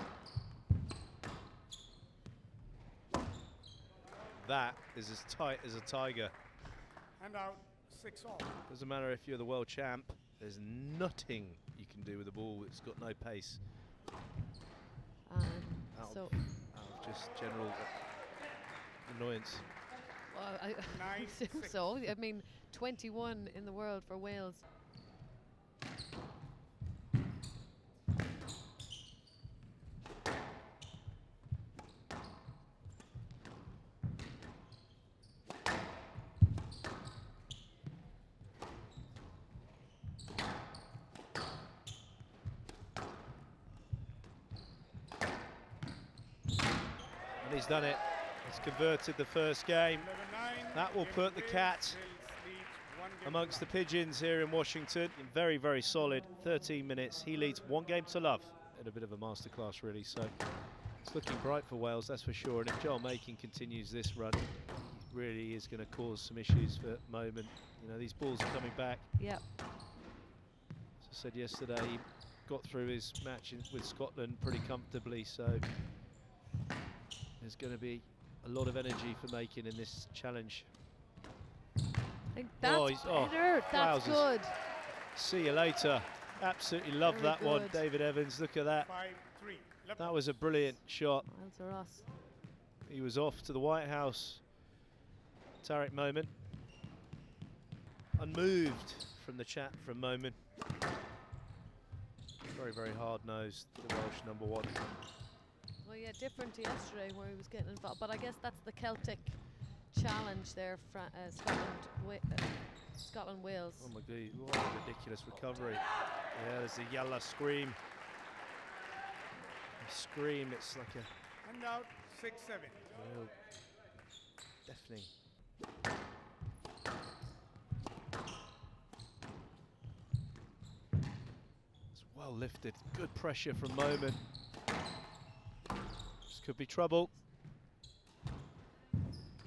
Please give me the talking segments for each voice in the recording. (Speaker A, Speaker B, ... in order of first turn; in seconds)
Speaker A: 4.4-6.3, 8.7-13.7, 15.9-18.1, 19.0-19.7, 47.4-50.1, 50.7-52.0, 53.2-69.1, 71.0-75.7, 77.4-80.7, 82.6-84.4, 85.1-88.9, 90.0-91.3, 92.8-94.5, 95.6-96.3, 98.1-100.4, 102.5-104.8, 113.8-117.8, 119.8-121.1, 122.9-123.4, 124.6-125.1, 131.9-134.2, 136.3-137.2
Speaker B: 7.2-8.6, 20.9-21.8, 50.0-53.7, 88.8-90.2, 121.4-122.9
Speaker C: 15.2-16.5, 20.2-24.6, 69.2-69.4, 82.3-84.6, 87.0-87.8, 91.2-92.1, 105.8-113.9